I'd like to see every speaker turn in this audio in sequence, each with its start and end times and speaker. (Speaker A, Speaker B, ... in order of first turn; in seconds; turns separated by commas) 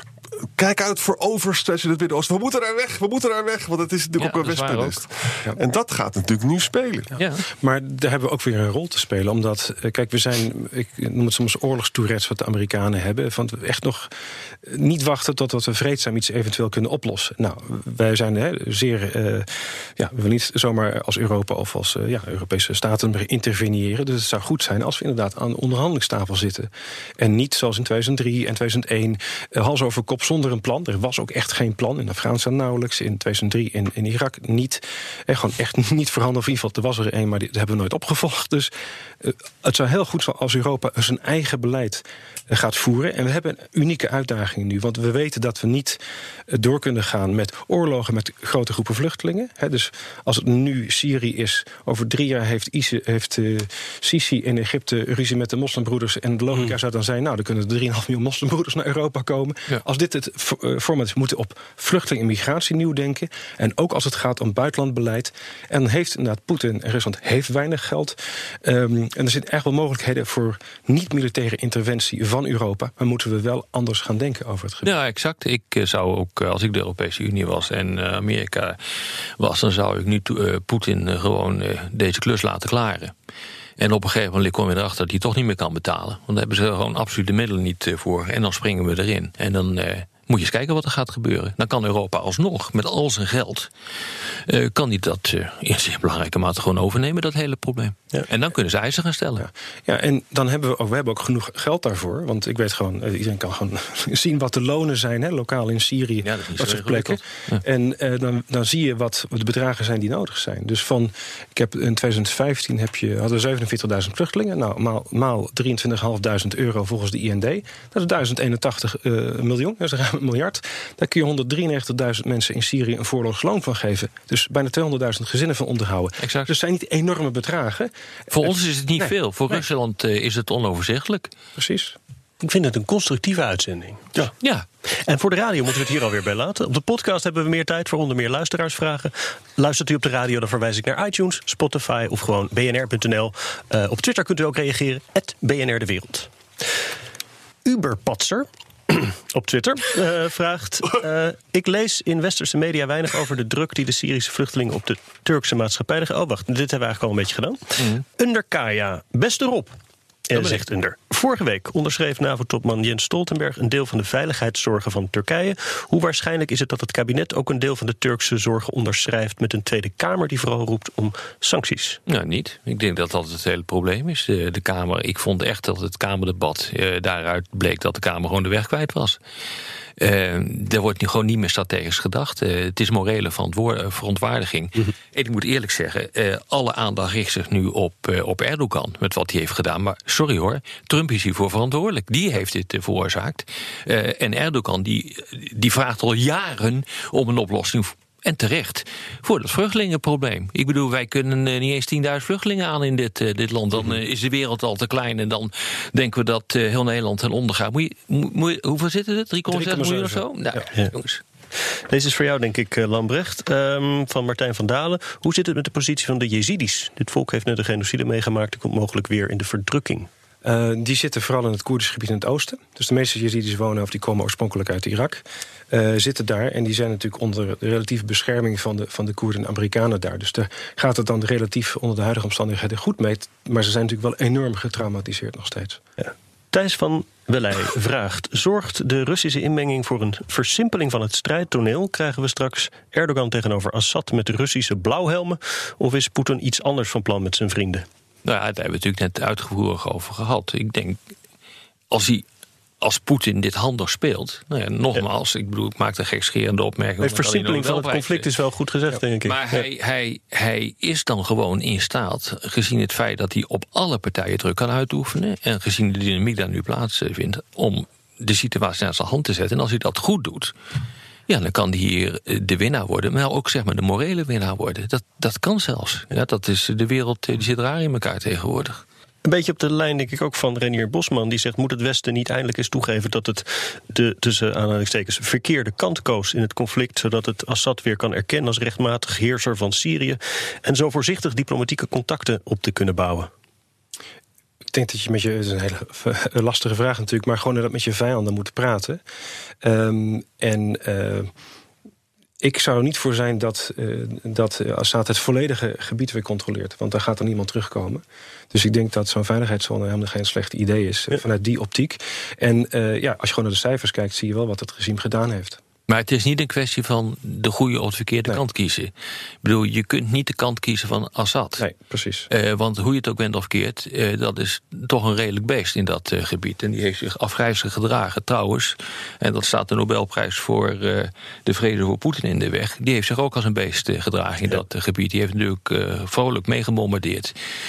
Speaker A: 0.4-7.1, Speaker B: 4.2-5.0, Speaker B: 7.2-7.4, Speaker C: 7.5-14.1, Speaker C: 14.6-74.9, Speaker B: 74.8-78.8, Speaker B: 79.4-83.1, Speaker B: 83.8-93.7, Speaker B: 94.5-99.5, Speaker C: 99.4-129.6, Speaker B: 106.2-107.6, Speaker B: 126.2-126.5, Speaker B: 128.3-131.3, Speaker C: 131.6-132.0, Speaker D: 132.4-134.1, Speaker B: 134.4-134.7, Speaker D: 135.1-146.3, Speaker D: 147.6-159.7, Speaker D: 160.3-172.0, Speaker B: 160.3-160.6, Speaker B: 172.1-179.2, Speaker B: 180.0-211.2, Speaker C: 209.5-210.6, Speaker D: 211.9-220.1, Speaker C: 220.4-235.8, Speaker D: 236.0-247.8, Speaker B: 248.2-251.0, Speaker B: 251.9-252.2, Speaker B: 252.8-258.3, Speaker D: 257.0-259.6, Speaker B: 258.9-270.5, Speaker B: 271.3-278.8, Speaker D: 279.2-293.3, Speaker C: 294.7-299.0, Speaker C: 299.6-301.3, Speaker C: 302.4-315.6, Speaker B: 315.9-318.9, Speaker B: 319.4-321.6, Speaker C: 321.6-322.3, Speaker B: 322.3-337.3